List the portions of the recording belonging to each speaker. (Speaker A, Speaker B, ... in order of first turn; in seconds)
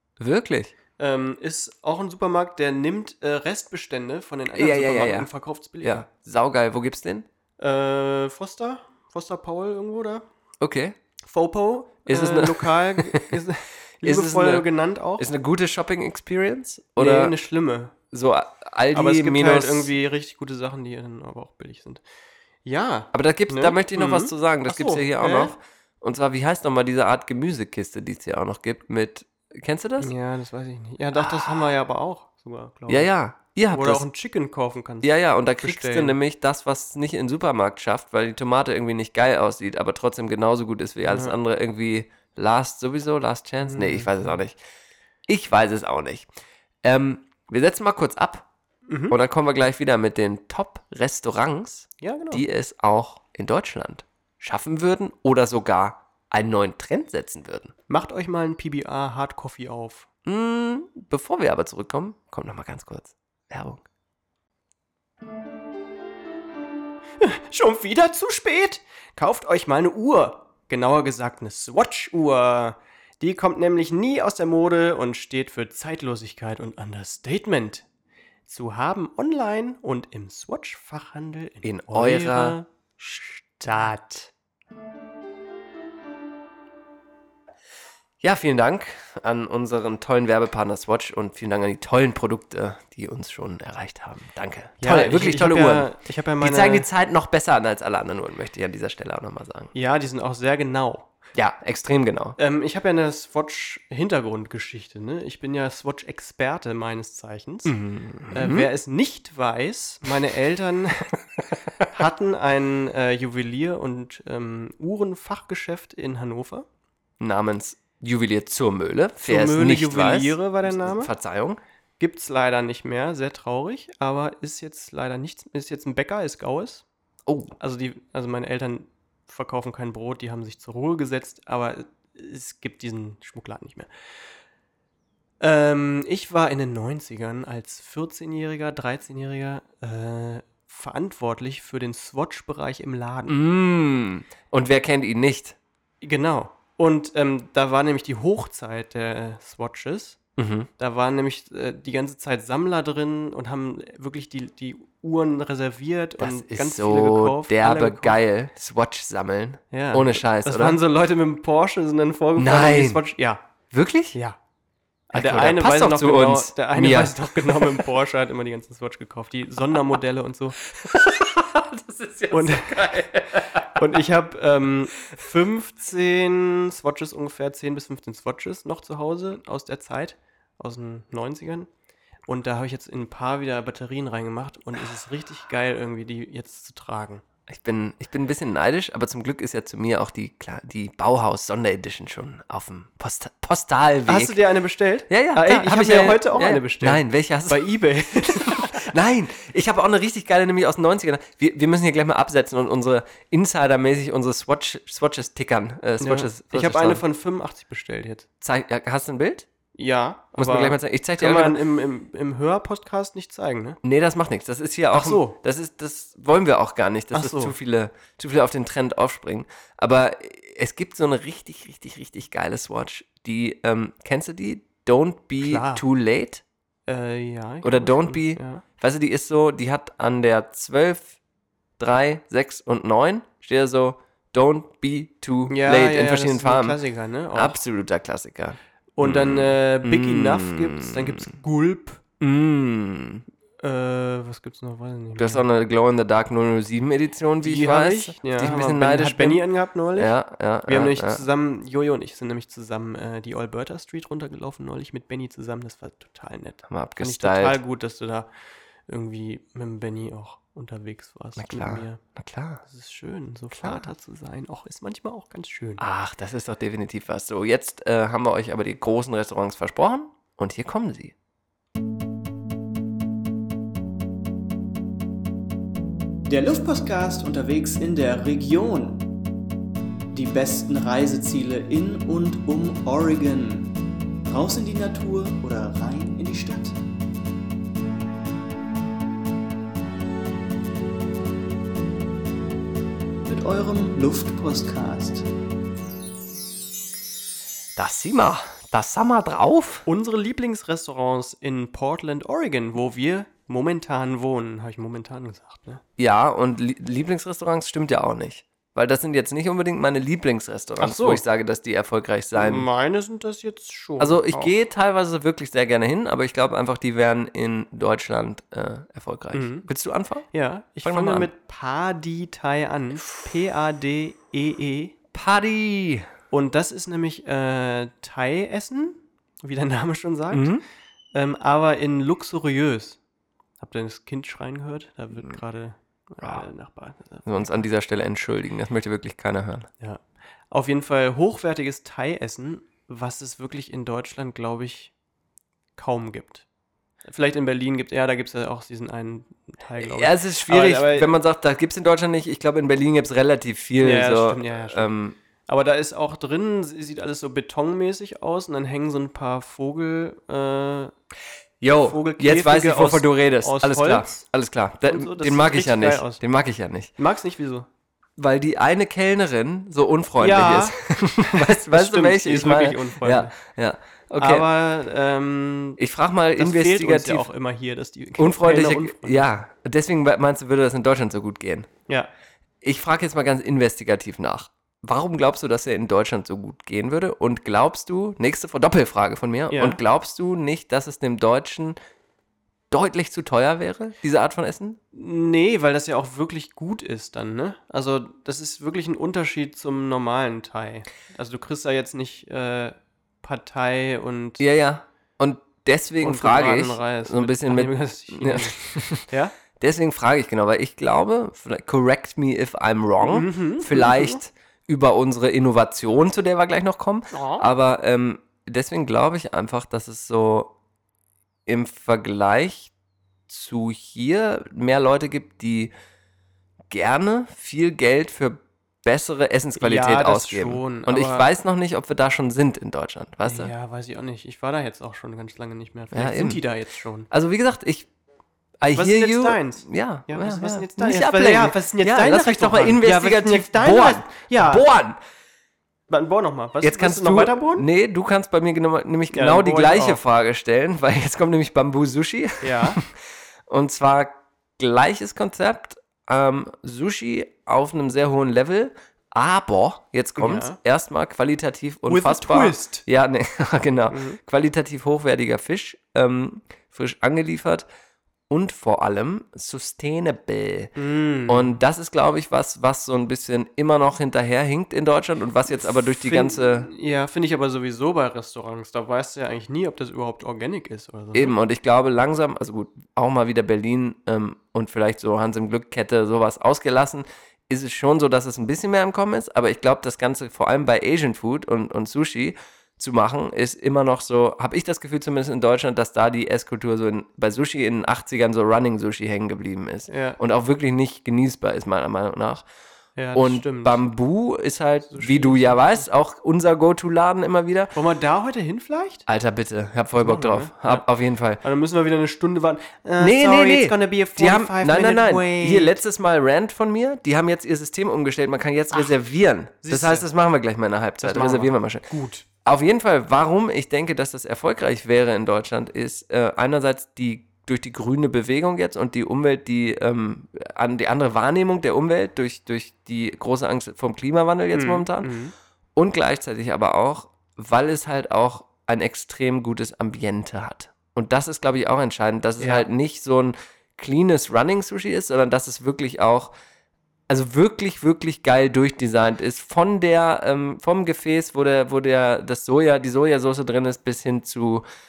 Speaker A: 0.2-0.7, 4.5-5.3, 5.8-7.3, 10.6-11.0, 12.1-13.4, 14.0-14.7, 15.2-17.4, 18.1-19.9, 23.1-30.1, 31.1-31.7, 32.9-34.0, 35.0-44.6, 45.3-46.3, 46.8-48.5, 49.1-57.7, 60.3-63.8, 81.6-82.6, 88.2-99.7, 101.3-102.4, 107.7-108.7, 117.2-121.6, 127.3-127.5, 143.3-145.6, 150.4-150.7, 156.2-160.8, 162.4-163.0, 163.7-164.2, 165.1-167.9, 170.7-174.0, 187.5-194.4, 195.1-207.0, 208.4-209.5, 210.4-211.6, 213.8-226.4, 227.6-231.2, 231.8-236.8, 237.3-241.3, 242.2-243.2, 245.2-249.4, 250.0-251.2, 256.7-257.6, 261.4-262.6, 263.5-263.9, 265.8-271.1, 297.8-299.9, 306.0-312.7, 314.0-320.3, 320.8-321.3, 325.1-326.1, 330.3-330.6, 337.2-339.7, 349.8-355.2, 361.6-366.9, 368.2-374.5, 375.8-377.3, 378.2-381.7, 382.6-391.8, 392.7-394.8, 404.4-409.1, 409.6-420.5, 421.5-422.7, 423.3-425.7, 426.7-433.5, 435.9-436.4, 437.1-437.9, 438.6-445.0, 446.6-452.9, 453.5-467.7, 468.3-470.7, 471.3-476.7, 481.1-502.4, 503.1-507.7, 509.1-511.4, 513.0-521.9, 522.4-535.1, 535.8-546.3, 547.1-554.6
Speaker B: 1.0-6.1, 7.6-10.2, 11.2-15.3, 17.0-17.9, 18.9-22.0, 22.6-25.5, 30.0-33.1, 33.7-36.2, 41.0-41.4, 43.7-44.4, 48.9-49.2, 52.0-52.4, 57.9-60.1, 67.2-77.8, 78.5-84.3, 94.8-96.9, 99.7-101.1, 102.4-107.8, 108.3-111.2, 111.9-116.7, 119.2-121.1, 122.0-126.8, 127.6-133.9, 135.4-143.4, 146.0-150.2, 150.8-158.2, 159.7-163.4, 165.1-170.6, 172.3-172.8, 173.7-181.7, 182.3-187.2, 194.1-198.9, 206.0-208.3, 209.8-213.8, 214.9-215.4, 217.1-217.6, 225.4-225.8, 226.9-228.6, 235.5-237.6, 239.0-242.0, 243.6-245.4, 247.4-250.1, 250.7-258.3, 258.9-262.0, 262.6-265.8, 299.9-305.8, 310.8-311.2, 312.4-314.5, 319.3-319.7, 320.3-325.0, 326.3-330.6, 331.1-333.0, 333.6-337.6, 339.8-344.9, 345.8-346.4, 347.1-351.1, 353.8-354.9, 355.5-360.9, 361.8-364.2, 364.9-366.2, 367.0-367.7, 370.2-373.4, 374.2-375.8, 376.4-379.3, 389.5-389.8, 394.9-404.4, 406.0-409.4, 413.0-414.2, 417.1-417.4, 429.6-431.3, 433.2-437.1, 438.7-444.7, 445.9-447.7, 449.1-450.0, 452.4-452.8, 460.2-460.6, 461.9-462.9, 463.9-464.2, 470.8-471.6, 475.6-481.3, 499.9-500.2, 503.0-503.9, 504.9-505.9, 507.7-509.1, 510.0-510.9, 511.4-515.8, 519.6-520.1, 521.0-522.2, 534.5-535.3, 542.4-542.7
Speaker C: 276.3-279.0, 280.1-283.7, 284.3-286.8, 293.3-295.2